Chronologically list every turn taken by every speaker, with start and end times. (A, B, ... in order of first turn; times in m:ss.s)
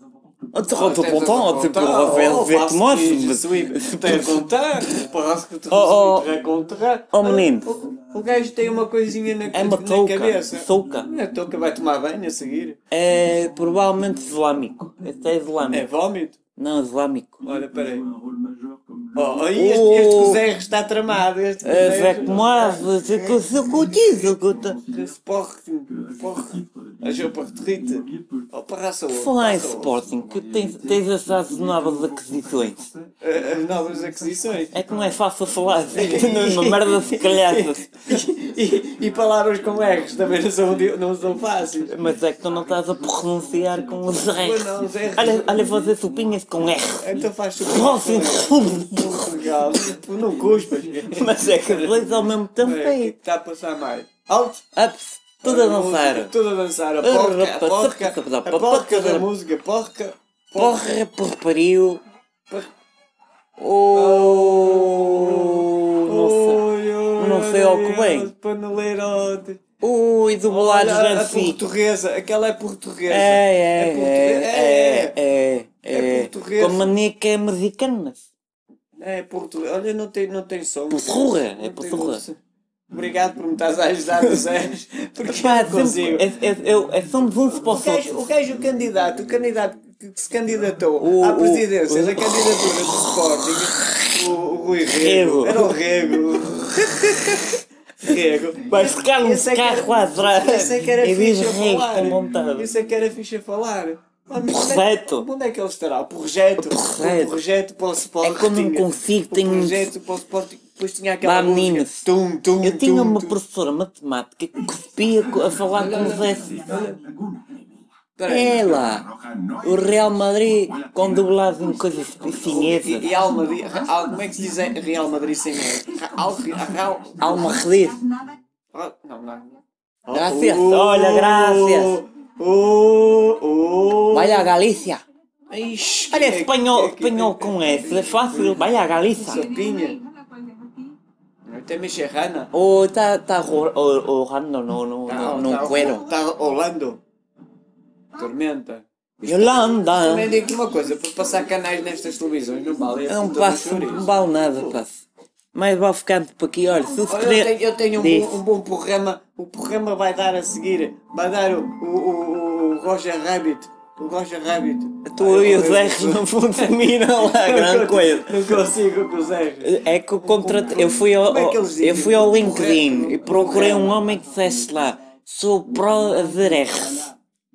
0:00.5-0:04.4 A
0:00.7-0:12.8 B
0:05.7-0:06.3 A
0:07.1-0:07.7 A
0:09.5-0:11.1 A
0:12.9-0:15.9 A
0:15.7-0:16.4 B
0:16.6-0:17.4 A
0:17.4-0:18.1 B
0:19.1-0:24.2 B
0:19.5-0:20.4 A
0:21.6-0:24.8 A
0:24.7-0:30.0 B
0:29.1-0:32.9 A
0:33.2-0:34.8 B
0:34.7-0:38.0 A
0:35.9-0:42.0 B
0:41.9-0:47.1 A
0:44.3-0:45.8 B
0:47.0-0:52.0 B
0:47.6-0:49.2 A
0:51.1-0:53.1 A
0:52.6-0:54.6 B
0:54.8-0:56.3 A
0:55.4-1:00.8 B
0:57.0-0:59.3 A
1:00.6-1:02.0 A
1:03.6-1:06.6 A
1:03.9-1:09.6 B
1:07.2-1:08.3 A
1:09.8-1:11.6 A
1:10.5-1:15.2 B
1:13.1-1:18.3 A
1:15.9-1:16.9 B
1:19.0-1:22.4 B
1:20.9-1:22.2 A
1:22.9-1:26.3 B
1:25.2-1:28.2 A
1:27.6-1:53.4 B
1:31.0-1:34.1 A
1:35.0-1:35.8 A
1:38.6-1:42.7 A
1:44.5-1:45.3 A
1:46.6-1:47.4 A
1:48.2-1:49.9 A
1:51.2-1:52.0 A
1:52.6-1:56.7 A
1:55.7-1:57.0 B
1:58.2-1:59.0 B
1:58.3-1:59.1 A
1:59.6-2:03.1 A
2:02.4-2:07.6 B
2:07.2-2:08.0 A
2:08.7-2:14.5 B
2:10.1-2:12.0 A
2:14.1-2:15.0 A
2:15.5-2:20.0 B
2:16.1-2:19.5 A
2:21.4-2:22.5 B
2:22.5-2:26.1 A
2:25.1-2:27.0 B
2:28.2-2:34.8 B
2:29.2-2:30.3 A
2:33.1-2:38.4 A
2:37.1-2:54.0 B
2:45.0-2:48.6 A
2:49.6-2:57.1 A